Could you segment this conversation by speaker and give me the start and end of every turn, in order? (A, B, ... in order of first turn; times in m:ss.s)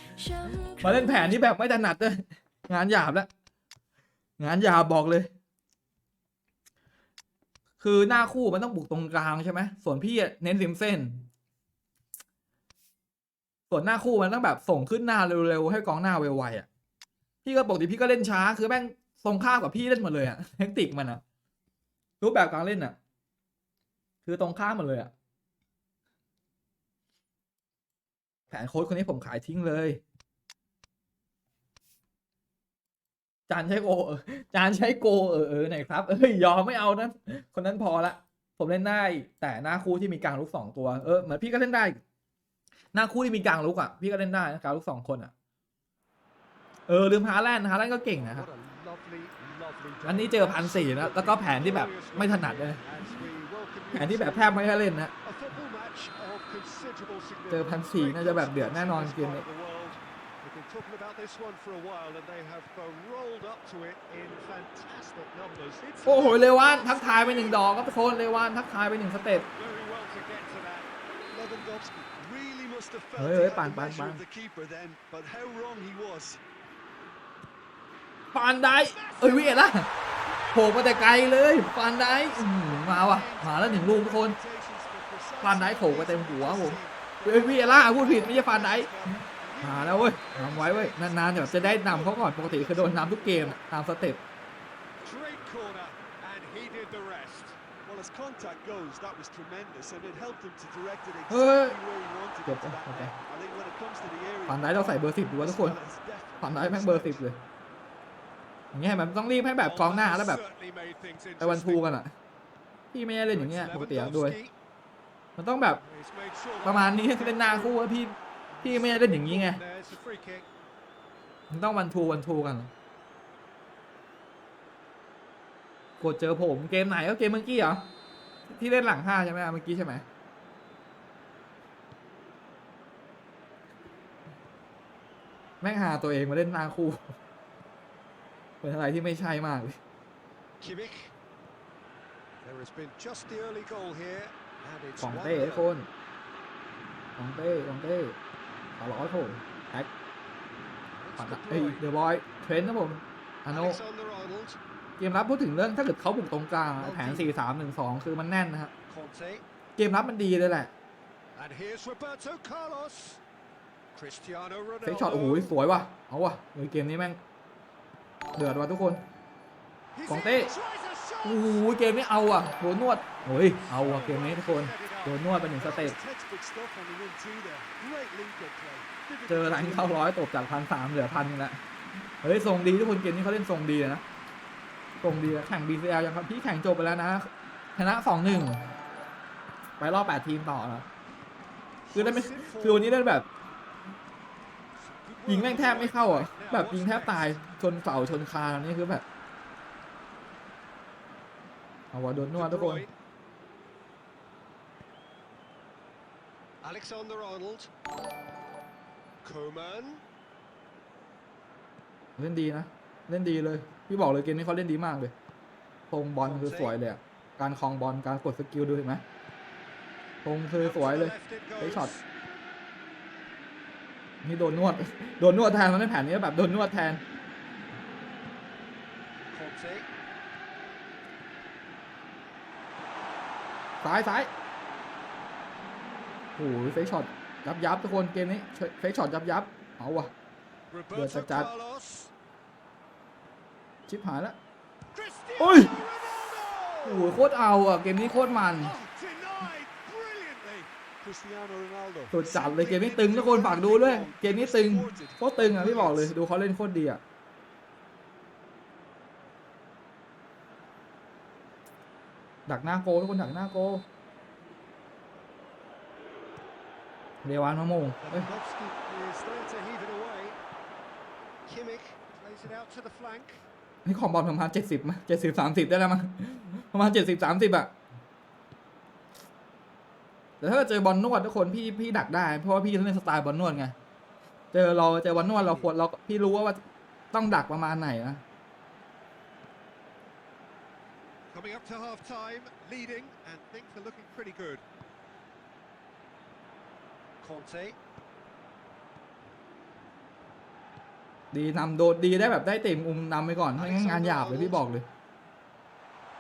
0:00.2-0:01.2 A
0:00.8-0:03.3 B
0:04.4-0:05.3 B
0:07.8-0:11.3 B
0:13.7-0:16.7 B
0:17.4-0:21.2 B
0:22.2-0:23.0 B
0:24.2-0:25.1 B
0:28.5-0:30.0 B
0:33.5-0:42.0 B
0:42.9-0:45.3 B
0:46.9-0:48.5 B
0:48.2-0:48.6 C
0:48.4-0:50.0 A
0:50.0-0:52.8 B
0:50.0-0:53.3 C
0:51.5-0:54.0 A
0:53.9-0:55.1 B
0:54.0-0:54.6 C
0:55.2-0:57.6 A
0:57.5-0:59.5 B
0:57.5-0:59.9 C
0:59.2-1:05.7 A
1:05.6-1:07.6 C
1:06.0-1:09.5 B
1:09.6-1:10.9 A
1:11.3-1:16.4 C
1:13.2-1:14.2 B
1:18.3-1:19.9 B
1:18.7-1:21.2 C
1:20.5-1:24.4 B
1:22.0-1:33.6 C
1:25.4-1:29.0 B
1:29.6-1:34.2 B
1:35.0-1:37.5 A
1:35.4-1:36.0 C
1:37.4-1:47.2 C
1:41.3-1:41.8 B
1:42.5-1:43.1 B
1:44.5-1:45.8 B
1:46.4-1:47.4 B
1:48.7-1:50.4 B
1:49.6-1:50.5 C
1:50.2-1:51.4 A
1:51.4-1:51.8 C
1:51.4-1:52.1 B
1:52.9-1:54.4 B
1:53.4-1:54.5 C
1:55.4-1:55.8 B
1:55.8-1:57.6 A
1:56.6-1:59.6 B
1:58.7-1:59.3 C
1:58.8-2:00.5 A
2:01.5-2:02.7 B
2:06.0-2:07.9 B
2:08.5-2:10.0 B
2:15.6-2:17.2 B
2:18.6-2:19.8 B
2:20.6-2:21.1 A
2:22.4-2:25.6 A
2:25.0-2:25.9 B
2:27.2-2:28.2 B
2:28.8-2:29.9 B
2:30.9-2:31.8 A
2:31.2-2:33.8 B
2:33.6-2:34.6 A
2:35.0-2:38.7 B
2:36.8-2:37.2 A
2:38.9-2:39.4 A
2:39.8-2:40.7 B
2:41.4-2:43.2 A
2:43.9-2:44.9 A
2:44.8-2:47.2 B
2:45.0-2:45.5 C
2:48.4-2:49.0 B
2:50.0-2:50.7 C
2:50.1-2:50.6 B
2:50.1-2:51.3 A
2:51.2-2:51.6 C
2:51.2-2:56.0 B
2:53.7-3:00.0 C
2:59.3-3:01.6 B
3:02.2-3:04.0 B
3:05.0-3:08.7 B
3:09.8-3:10.9 B
3:11.9-3:13.3 B
3:12.0-3:12.7 C
3:12.0-3:12.6 A
3:14.9-3:15.7 A
3:15.3-3:19.0 B
3:15.4-3:16.4 C
3:16.3-3:17.2 A
3:21.9-3:22.9 B
3:22.4-3:22.8 C
3:26.6-3:27.7 A
3:29.2-3:30.0 A
3:32.2-3:35.1 B
3:35.9-3:39.0 B
3:36.3-3:36.7 A
3:40.2-3:41.9 B
3:40.7-3:41.1 C
3:40.7-3:41.9 A
3:44.2-3:47.0 B
3:49.3-3:49.9 A
3:53.8-3:54.3 B
3:56.4-4:00.1 B
4:00.7-4:02.1 A
4:00.9-4:01.5 B
4:01.1-4:01.6 C
4:03.9-4:04.4 B
4:05.0-4:07.1 C
4:05.4-4:05.8 B
4:06.8-4:08.7 B
4:08.6-4:16.1 C
4:12.1-4:17.0 B
4:22.5-4:23.8 B
4:27.2-4:28.3 B
4:28.1-4:30.4 A
4:31.5-4:33.4 A
4:33.8-4:37.7 B
4:40.4-4:43.7 B
4:44.5-4:46.6 B
4:45.2-4:45.6 C
4:47.1-4:48.2 B
4:51.3-4:54.6 A
4:57.2-4:57.8 A
5:01.3-5:04.9 B
5:03.6-5:04.6 C